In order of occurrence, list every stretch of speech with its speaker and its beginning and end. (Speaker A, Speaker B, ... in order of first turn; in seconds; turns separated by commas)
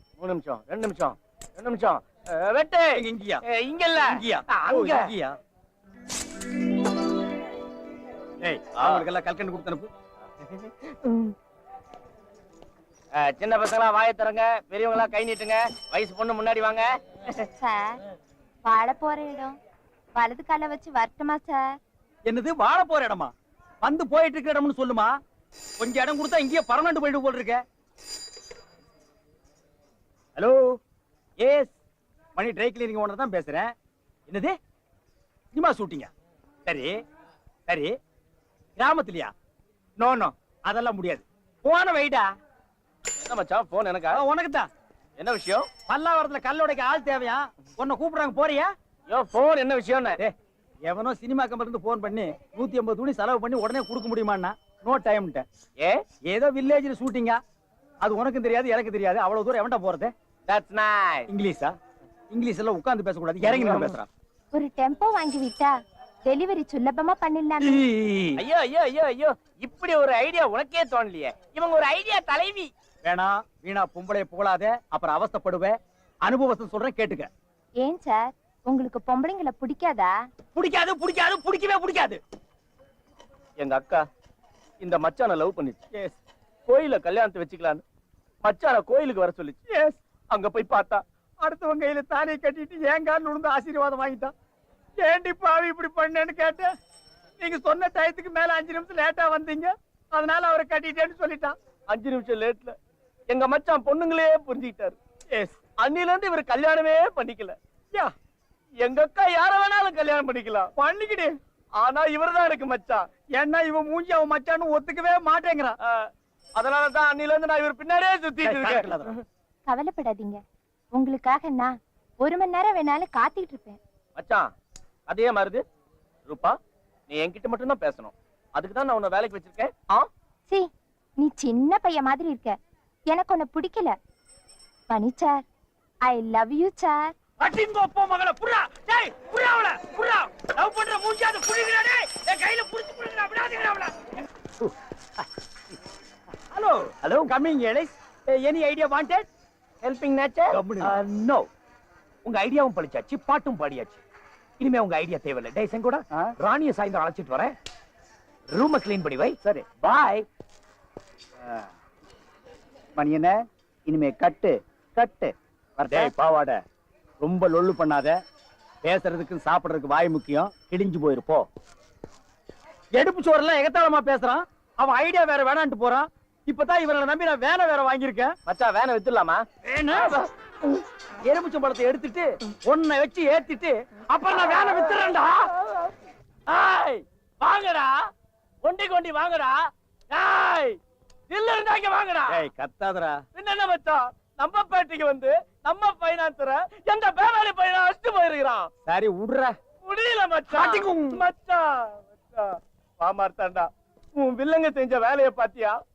Speaker A: 0.2-5.1, Speaker B: 2.9-3.4, Speaker B: 4.1-5.4, Speaker B: 8.4-9.9, Speaker A: 8.8-9.1, Speaker A: 10.4-11.3, Speaker A: 13.1-16.9, Speaker C: 17.6-18.0, Speaker C: 18.6-19.5, Speaker C: 20.1-21.7, Speaker B: 22.3-25.1, Speaker B: 25.8-27.6, Speaker B: 30.4-30.8, Speaker B: 31.4-31.8, Speaker B: 32.4-33.7, Speaker B: 34.3-34.5, Speaker B: 35.5-36.1, Speaker B: 36.6-37.0, Speaker B: 37.7-38.0, Speaker B: 38.8-39.3, Speaker B: 40.0-42.3, Speaker A: 43.2-44.2, Speaker B: 44.1-44.7, Speaker A: 45.2-45.7, Speaker B: 45.9-48.7, Speaker A: 49.1-50.2, Speaker B: 50.2-55.4, Speaker A: 55.8-56.0, Speaker B: 56.3-57.4, Speaker B: 58.0-60.1, Speaker A: 60.5-61.3, Speaker B: 61.3-61.8, Speaker B: 62.3-64.1, Speaker A: 63.4-63.9, Speaker C: 64.5-65.7, Speaker C: 66.2-67.8, Speaker B: 67.8-68.4, Speaker A: 68.4-72.7, Speaker B: 73.0-77.3, Speaker C: 77.8-80.1, Speaker B: 80.5-82.2, Speaker A: 83.6-84.0, Speaker A: 84.8-85.8, Speaker A: 86.7-87.8, Speaker A: 88.4-89.6, Speaker B: 89.7-90.0, Speaker A: 90.3-91.0, Speaker B: 91.4-94.3, Speaker B: 95.0-96.7, Speaker B: 97.4-101.5, Speaker A: 101.9-102.8, Speaker A: 103.3-105.0, Speaker B: 105.3-105.6, Speaker A: 105.8-107.6, Speaker A: 108.8-110.7, Speaker B: 110.8-111.3, Speaker A: 111.8-113.1, Speaker B: 113.3-115.7, Speaker A: 115.8-119.2, Speaker B: 118.4-119.1, Speaker C: 119.7-120.4, Speaker C: 120.9-123.8, Speaker A: 124.2-124.5, Speaker A: 125.1-125.6, Speaker A: 126.2-126.6, Speaker A: 127.1-130.1, Speaker C: 131.2-132.6, Speaker C: 133.1-133.9, Speaker C: 134.9-135.4, Speaker C: 136.0-137.1, Speaker B: 137.4-144.2, Speaker B: 146.5-149.3, Speaker D: 147.0-147.3, Speaker A: 149.8-150.6, Speaker B: 150.5-151.0, Speaker D: 150.8-151.5, Speaker D: 152.2-154.0, Speaker D: 154.6-157.5, Speaker D: 158.5-160.2, Speaker E: 159.4-159.8, Speaker E: 162.9-166.1, Speaker B: 165.9-166.6, Speaker B: 167.2-168.2, Speaker B: 168.8-171.5, Speaker B: 172.9-178.3, Speaker A: 178.4-179.4, Speaker B: 179.6-180.2, Speaker A: 180.0-180.3, Speaker B: 181.2-185.5, Speaker A: 184.5-184.9, Speaker A: 186.5-187.9, Speaker A: 188.6-190.8, Speaker A: 191.3-192.4, Speaker B: 192.3-193.2, Speaker A: 193.3-198.7, Speaker B: 198.8-199.5, Speaker A: 199.8-205.8, Speaker B: 200.5-201.2